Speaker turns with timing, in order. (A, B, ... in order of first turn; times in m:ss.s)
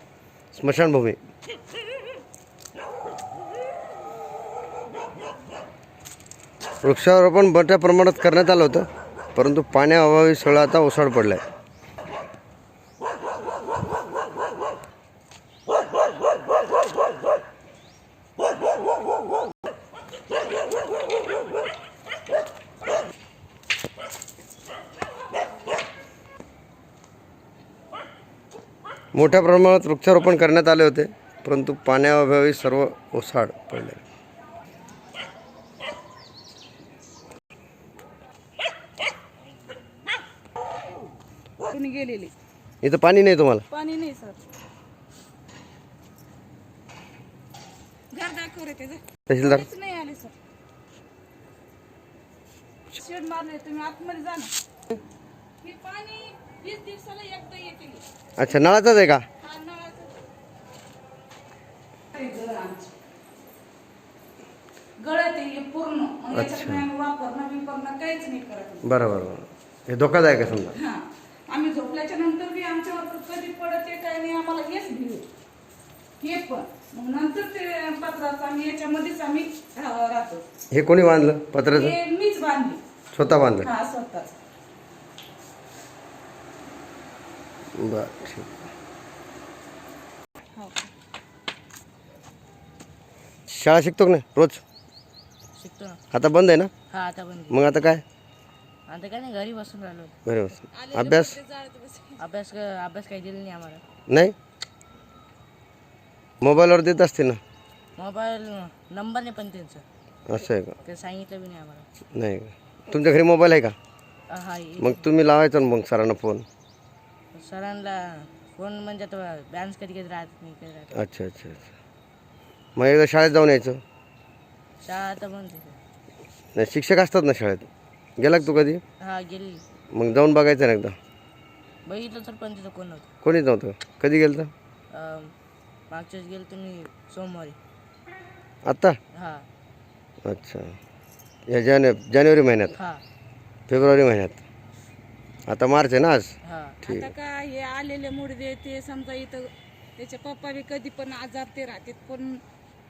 0:00.5-0:01.2 A
0:06.8-0:11.4 A
0:29.1-0:34.0 A
0:41.7-0:42.3 B
0:42.8-0:43.7 A
0:43.7-0:44.4 B
0:48.1-0:50.3 B
0:49.3-0:49.7 A
0:52.9-0:54.5 B
0:55.6-0:58.0 B
0:58.4-0:59.2 A
0:59.4-1:00.2 B
1:02.1-1:02.9 B
1:05.0-1:08.8 B
1:06.3-1:06.9 A
1:08.8-1:10.8 A
1:10.7-1:15.2 B
1:16.2-1:20.4 B
1:20.7-1:22.0 A
1:21.7-1:22.8 B
1:23.1-1:23.7 A
1:23.6-1:24.3 B
1:27.8-1:28.7 A
1:30.6-1:30.9 B
1:33.5-1:34.6 A
1:35.6-1:36.0 C
1:36.1-1:36.7 A
1:36.9-1:37.6 C
1:37.5-1:38.0 A
1:38.9-1:40.2 C
1:40.2-1:41.4 A
1:40.6-1:42.2 B
1:42.2-1:43.8 C
1:44.1-1:44.3 A
1:46.4-1:47.4 A
1:48.0-1:49.8 C
1:50.3-1:50.8 A
1:50.8-1:51.9 C
1:52.1-1:53.8 A
1:54.3-1:55.1 C
1:54.8-1:56.4 A
1:57.3-2:01.0 C
2:00.9-2:01.7 A
2:02.8-2:03.8 A
2:04.8-2:05.8 C
2:06.5-2:08.8 A
2:09.0-2:09.6 C
2:09.9-2:11.0 A
2:11.8-2:13.1 C
2:13.2-2:14.5 A
2:14.9-2:15.3 C
2:15.9-2:17.6 C
2:18.7-2:19.0 A
2:19.1-2:19.5 C
2:20.2-2:20.8 A
2:21.5-2:22.8 A
2:22.8-2:23.0 C
2:23.7-2:24.4 A
2:25.5-2:27.1 A
2:26.4-2:26.8 C
2:26.8-2:32.4 B